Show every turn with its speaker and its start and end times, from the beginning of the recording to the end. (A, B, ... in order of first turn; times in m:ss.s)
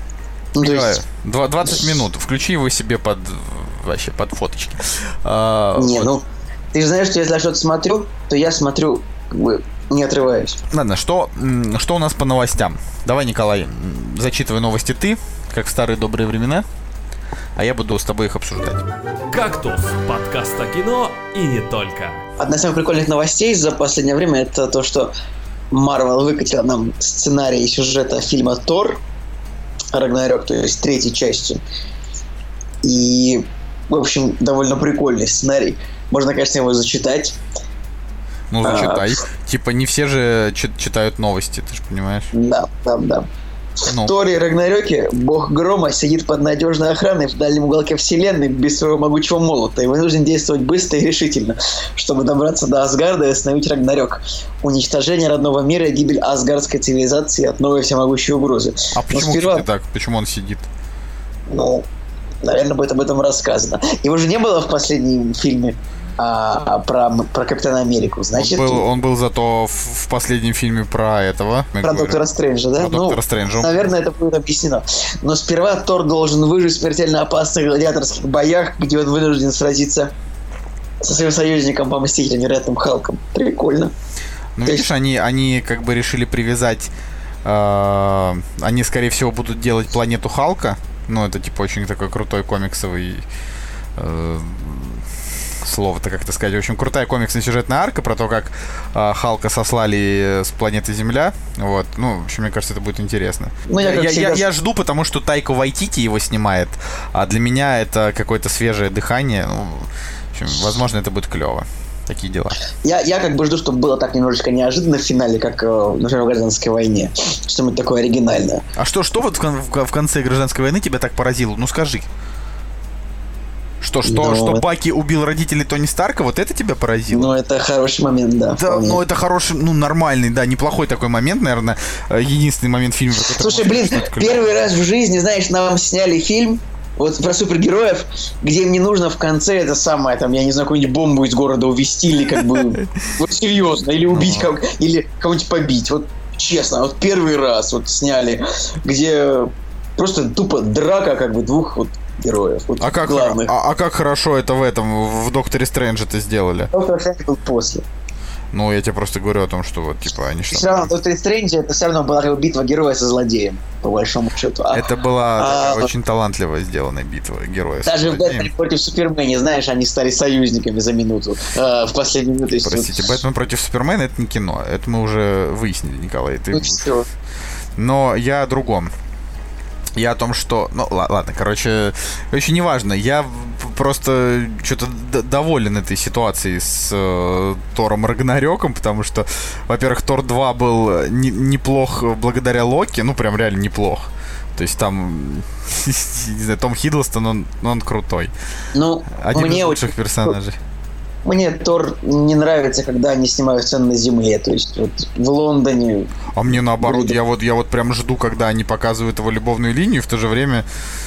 0:00.6-0:01.0 A
0:00.6-0:06.1 B
0:05.8-0:10.6 A
0:10.7-0:16.7 B
0:17.6-0:18.8 B
0:19.3-0:22.3 C
0:22.4-0:25.1 A
0:25.7-0:29.0 A
0:29.9-0:31.6 A
0:32.8-0:37.4 A
0:38.5-0:42.3 B
0:38.6-0:39.2 A
0:42.3-0:43.3 A
0:43.8-0:59.7 A
0:43.9-0:44.2 B
0:59.0-1:00.7 B
1:01.5-1:01.9 A
1:02.4-1:08.9 A
1:08.3-1:12.2 B
1:11.8-1:20.1 A
1:12.8-1:13.9 B
1:21.0-1:23.9 A
1:24.6-1:26.9 B
1:27.4-1:33.2 B
1:34.0-1:35.1 B
1:35.6-1:52.6 B
1:43.7-1:44.5 A
1:52.8-1:58.6 A
1:58.8-2:02.1 B
2:03.8-2:07.4 B
2:04.0-2:04.6 A
2:07.1-2:09.0 A
2:08.6-2:14.6 B
2:13.2-2:33.5 A
2:22.4-2:22.9 B
2:24.1-2:24.5 B
2:32.8-2:36.7 B
2:36.7-2:37.8 A
2:38.5-2:40.9 B
2:40.5-2:45.9 A
2:44.7-2:48.5 B
2:47.8-2:53.2 A
2:52.6-2:56.9 B
2:56.5-2:57.1 A
2:57.8-2:58.9 B
3:00.0-3:18.3 B
3:18.7-3:20.4 A
3:19.2-3:20.6 B
3:21.2-3:27.2 A
3:26.4-3:30.6 B